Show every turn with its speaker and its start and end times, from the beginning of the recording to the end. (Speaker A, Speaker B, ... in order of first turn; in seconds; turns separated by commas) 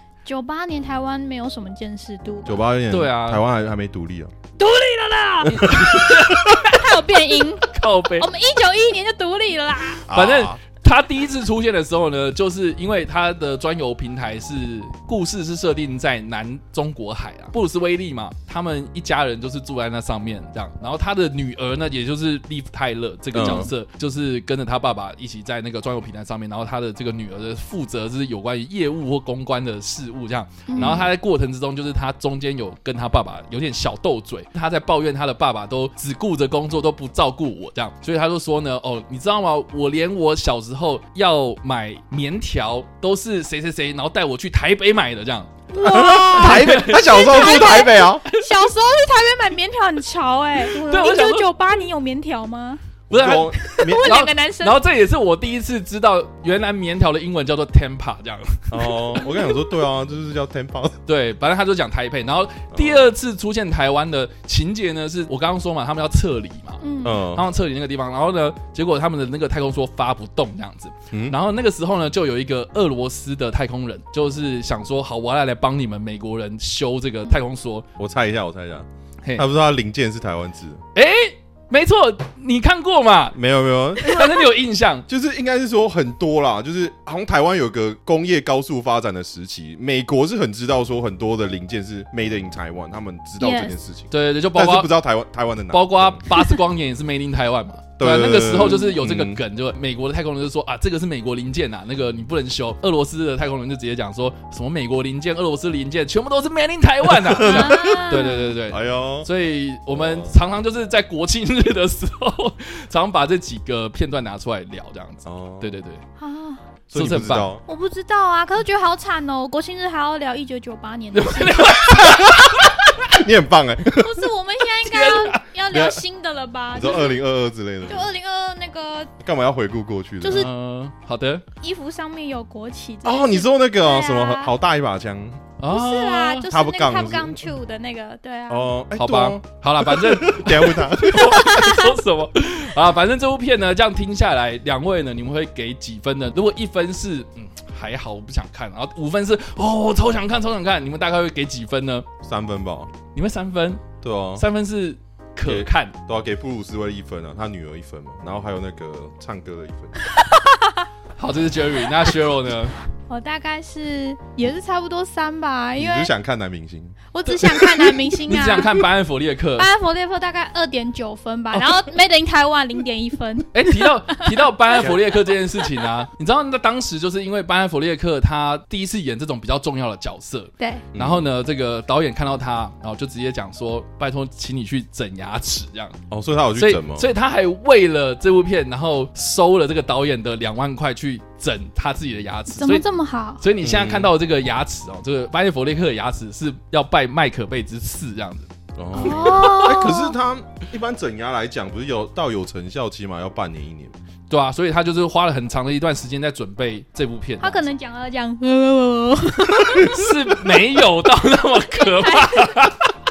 Speaker A: 0.2-2.6, Speaker B: 2.4-4.3, Speaker C: 2.9-3.4, Speaker A: 4.6-10.1, Speaker C: 5.5-8.3, Speaker B: 10.1-10.6, Speaker C: 10.1-45.6, Speaker B: 23.3-23.7, Speaker A: 30.7-31.0, Speaker B: 30.7-31.1, Speaker A: 45.7-54.8, Speaker B: 45.7-48.2, Speaker C: 46.3-48.4, Speaker C: 50.7-51.5, Speaker C: 53.1-59.0, Speaker B: 53.1-54.2, Speaker B: 58.7-61.0, Speaker C: 61.0-77.9, Speaker B: 62.7-63.1, Speaker A: 66.8-67.2, Speaker B: 67.0-67.4, Speaker B: 78.0-80.8, Speaker C: 80.9-83.4, Speaker B: 83.3-84.5, Speaker C: 84.0-85.0, Speaker B: 85.1-96.2, Speaker A: 93.4-93.7, Speaker C: 94.1-94.9, Speaker C: 95.7-116.0, Speaker B: 98.0-99.4, Speaker B: 107.0-109.3, Speaker A: 107.4-108.5, Speaker B: 109.9-110.3, Speaker B: 115.2-115.7, Speaker A: 116.2-116.6, Speaker B: 116.9-117.6, Speaker C: 116.9-117.5, Speaker A: 117.7-122.7, Speaker C: 121.1-122.9, Speaker B: 123.1-124.3, Speaker A: 123.9-127.2, Speaker C: 124.8-126.0, Speaker B: 126.7-128.1, Speaker A: 127.8-129.1, Speaker B: 129.2-130.5, Speaker A: 130.2-130.5, Speaker C: 130.3-131.4, Speaker A: 131.6-134.5, Speaker B: 133.0-135.5, Speaker C: 135.6-136.5, Speaker A: 135.7-138.7, Speaker B: 136.5-137.5, Speaker B: 138.5-141.6, Speaker C: 138.9-152.1, Speaker A: 141.3-141.9, Speaker B: 152.2-152.9, Speaker C: 153.1-153.8, Speaker B: 154.0-154.4, Speaker C: 154.3-156.0, Speaker B: 155.4-159.9, Speaker A: 160.1-160.8, Speaker C: 161.2-162.7, Speaker A: 163.1-166.1, Speaker B: 165.8-167.0, Speaker A: 167.1-168.8, Speaker C: 168.2-169.7, Speaker A: 169.6-174.3, Speaker C: 173.5-186.0, Speaker A: 180.6-180.8, Speaker B: 180.9-181.3, Speaker B: 186.1-187.1, Speaker C: 186.5-192.8, Speaker A: 192.6-193.4, Speaker C: 193.4-199.4, Speaker B: 193.6-194.1, Speaker B: 198.8-203.9, Speaker A: 198.9-200.1, Speaker C: 204.3-207.7, Speaker A: 207.4-210.0, Speaker C: 209.8-212.9, Speaker A: 211.7-212.7